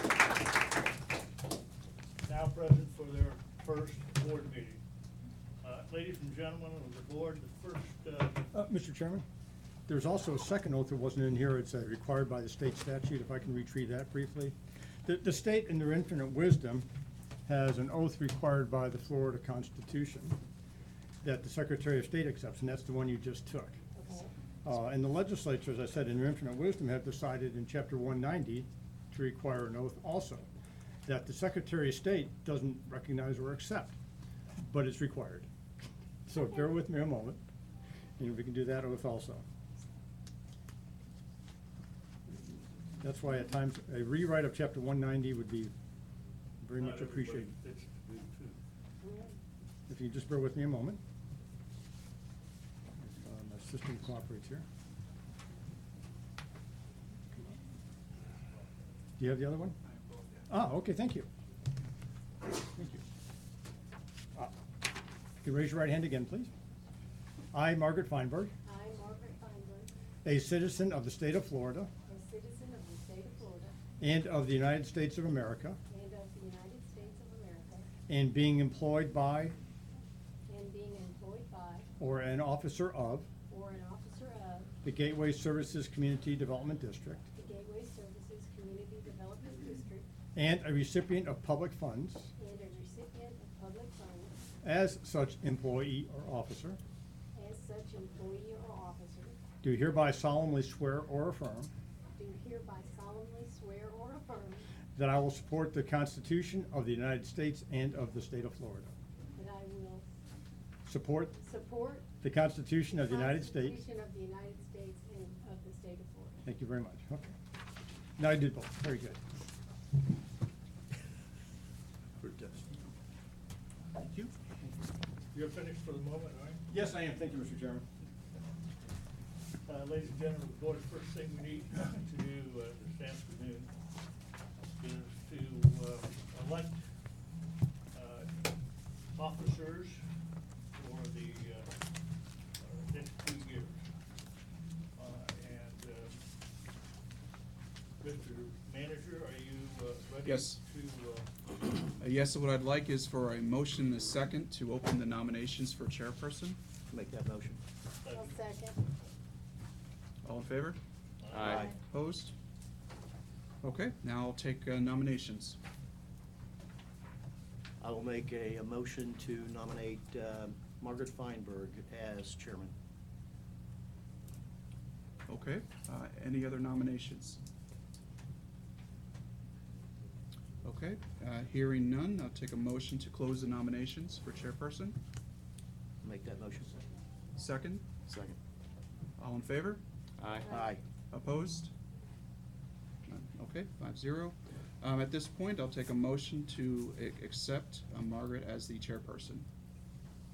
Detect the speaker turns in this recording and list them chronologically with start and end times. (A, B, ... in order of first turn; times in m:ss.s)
0:02.2-0:04.8 A
0:05.6-0:08.4 A
0:08.5-0:09.2 B
0:09.9-0:16.9 B
0:17.5-0:20.4 B
0:21.2-0:23.8 B
0:24.0-0:24.3 C
0:24.6-0:30.5 B
0:31.0-0:34.0 B
0:34.6-0:35.5 B
0:36.3-0:37.4 B
0:38.2-0:39.4 B
0:43.0-0:45.7 B
0:46.6-0:47.5 B
0:46.8-0:48.6 A
0:49.0-0:49.4 C
0:49.9-0:51.0 B
0:53.0-0:54.6 B
0:59.2-0:59.8 B
0:59.8-1:00.5 D
1:00.5-1:01.3 B
1:05.4-1:06.5 B
1:07.5-1:08.5 B
1:08.6-1:09.9 C
1:10.2-1:11.9 B
1:12.0-1:13.8 C
1:14.0-1:15.8 B
1:15.9-1:17.9 C
1:18.1-1:19.6 B
1:20.5-1:21.9 C
1:22.0-1:23.3 B
1:23.5-1:24.7 C
1:24.8-1:27.2 B
1:27.3-1:30.1 C
1:30.3-1:32.3 B
1:32.4-1:34.3 C
1:34.6-1:36.8 B
1:37.3-1:39.4 C
1:39.6-1:41.7 B
1:42.2-1:44.7 C
1:45.0-1:48.9 B
1:49.3-1:50.0 C
1:50.8-1:51.4 B
1:51.4-1:52.1 C
1:52.2-1:53.8 B
1:53.0-1:56.4 C
1:56.4-1:57.3 B
1:58.2-1:59.2 B
2:02.2-2:02.7 E
2:05.3-2:06.6 A
2:06.7-2:07.8 B
2:09.6-2:13.7 A
2:14.8-2:16.8 A
2:17.9-2:18.4 A
2:19.1-2:20.1 A
2:20.7-2:21.8 A
2:22.6-2:23.9 A
2:24.9-2:26.2 A
2:28.0-2:31.3 A
2:30.2-2:30.6 D
2:32.0-2:36.6 D
2:36.9-2:37.6 E
2:38.0-2:38.4 A
2:38.1-2:38.8 C
2:40.2-2:40.8 D
2:41.2-2:41.6 A
2:41.4-2:41.8 E
2:41.4-2:42.3 D
2:41.5-2:41.7 C
2:43.6-2:45.6 D
2:47.8-2:52.7 E
2:55.3-2:57.4 D
3:00.6-3:05.0 D
3:06.0-3:06.8 E
3:07.4-3:07.9 D
3:08.1-3:08.4 E
3:09.2-3:09.8 D
3:10.5-3:10.8 E
3:11.1-3:11.7 D
3:13.1-3:19.5 D